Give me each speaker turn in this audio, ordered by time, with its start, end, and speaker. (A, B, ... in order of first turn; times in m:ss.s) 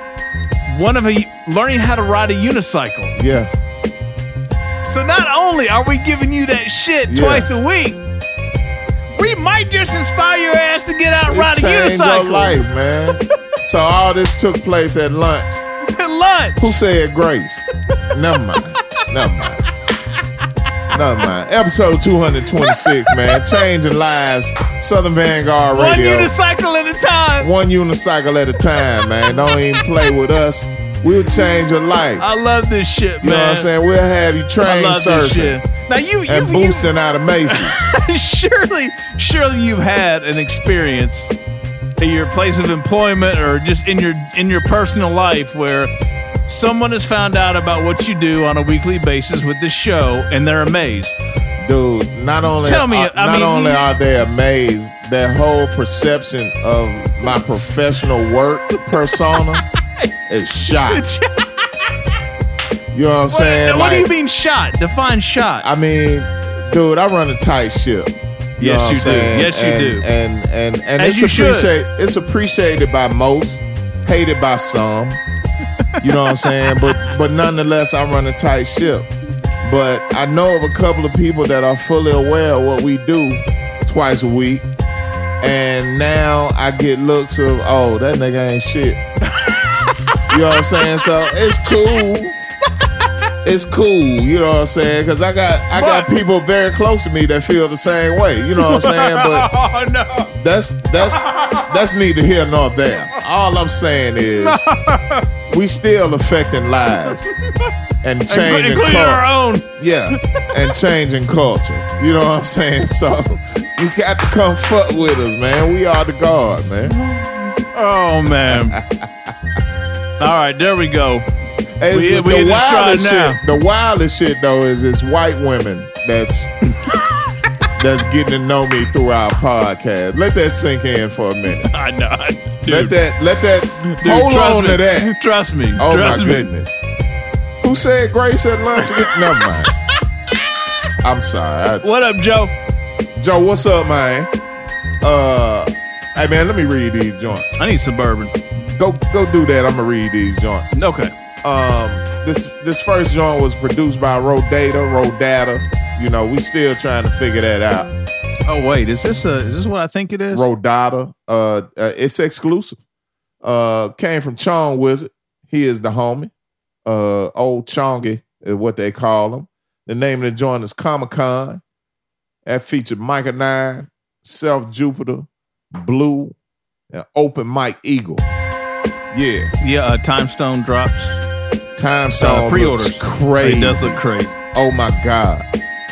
0:00.7-0:03.2 A
0:03.2-0:03.5 B
0:04.9-0:08.0 A
0:07.1-0:07.5 B
0:09.2-0:12.6 A
0:11.3-0:15.6 B
0:15.9-0:16.6 A
0:16.6-0:19.6 B
0:20.9-0:26.3 B
0:22.7-0:23.4 A
0:25.8-0:27.5 A
0:27.4-0:32.2 B
0:32.2-0:33.7 A
0:33.2-0:35.6 B
0:34.6-0:36.9 A
0:36.3-0:37.8 B
0:37.5-0:41.3 A
0:42.0-0:45.9 A
0:46.5-0:51.2 A
0:51.6-0:59.6 B
0:52.6-0:53.8 A
1:00.3-1:01.0 B
1:00.9-1:01.6 A
1:02.9-1:04.1 B
1:03.3-1:05.7 A
1:05.6-1:15.2 B
1:08.6-1:10.0 A
1:11.0-1:11.7 A
1:16.0-1:19.1 B
1:16.3-1:16.9 A
1:19.6-1:24.6 B
1:25.4-1:29.0 B
1:30.3-1:32.3 B
1:33.4-1:39.5 B
1:35.8-1:36.1 A
1:38.6-1:40.3 A
1:40.3-1:44.6 B
1:41.2-1:41.7 A
1:44.4-1:45.2 A
1:45.5-1:47.3 B
1:48.0-1:49.2 B
1:48.3-1:49.6 A
1:49.8-1:56.9 B
1:57.0-1:58.8 A
1:58.5-1:59.1 B
2:00.2-2:01.2 A
2:01.8-2:06.5 B
2:01.9-2:03.4 A
2:07.8-2:11.7 B
2:11.7-2:12.9 A
2:12.7-2:15.1 B
2:14.0-2:16.5 A
2:15.8-2:16.8 B
2:17.6-2:19.7 B
2:21.0-2:21.8 B
2:21.8-2:22.5 A
2:23.2-2:24.3 B
2:25.0-2:27.5 B
2:27.6-2:28.4 A
2:28.8-2:30.7 B
2:30.7-2:31.1 A
2:31.4-2:37.9 B
2:38.5-2:40.5 A
2:40.3-2:42.8 B
2:43.4-2:46.3 B
2:46.9-2:51.6 B
2:52.5-2:56.4 B
2:56.9-2:58.2 B
2:59.1-2:59.5 B
2:59.6-3:01.2 A
3:01.8-3:04.0 B
3:02.2-3:04.4 A
3:04.5-3:05.4 B